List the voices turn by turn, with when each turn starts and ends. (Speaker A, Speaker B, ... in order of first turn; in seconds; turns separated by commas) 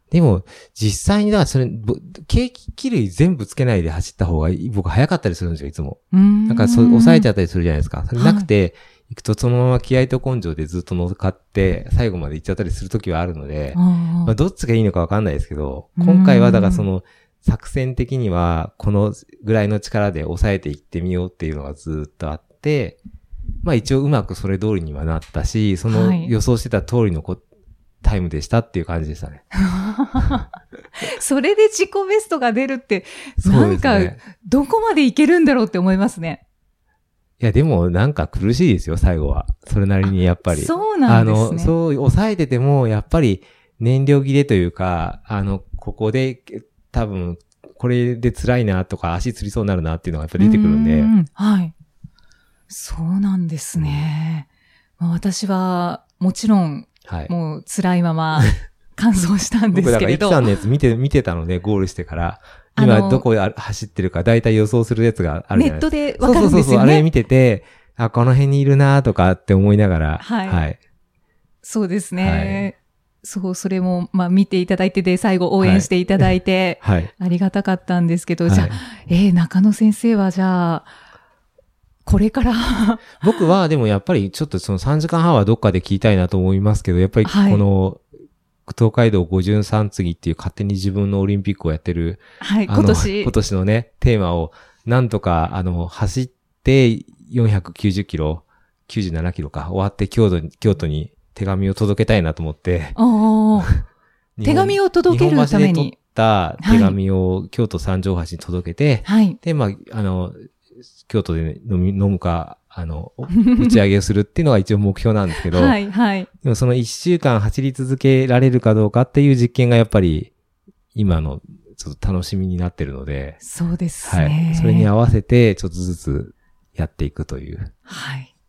Speaker A: 0.1-23.0, Speaker B: 6.1-7.3, Speaker B: 8.2-8.5, Speaker B: 13.7-14.3, Speaker B: 16.0-16.9, Speaker A: 23.6-27.4, Speaker B: 25.9-26.3, Speaker A: 28.0-29.4, Speaker B: 29.6-30.4, Speaker B: 31.0-36.4, Speaker A: 33.4-34.2, Speaker A: 37.4-51.1, Speaker B: 40.5-41.7, Speaker B: 50.4-51.7, Speaker B: 52.7-54.5, Speaker A: 53.8-54.1, Speaker B: 55.0-60.6, Speaker A: 57.1-57.3, Speaker A: 59.7-70.8, Speaker B: 62.8-63.3, Speaker B: 65.5-67.1, Speaker B: 70.2-70.6, Speaker B: 71.6-80.9, Speaker A: 72.2-72.7, Speaker A: 75.6-76.3, Speaker A: 76.8-77.1, Speaker A: 78.5-78.8, Speaker B: 82.0-83.4, Speaker A: 83.2-88.0, Speaker B: 87.2-87.6, Speaker A: 88.7-103.0, Speaker B: 92.4-93.3, Speaker B: 103.0-103.7, Speaker A: 104.4-110.3, Speaker B: 104.4-105.9, Speaker B: 106.6-107.0, Speaker B: 109.0-109.4, Speaker A: 111.1-115.8, Speaker B: 113.3-113.8, Speaker B: 115.5-116.3, Speaker A: 116.4-120.3, Speaker A: 120.9-123.4, Speaker B: 123.4-124.9, Speaker A: 124.0-127.7, Speaker B: 127.9-128.3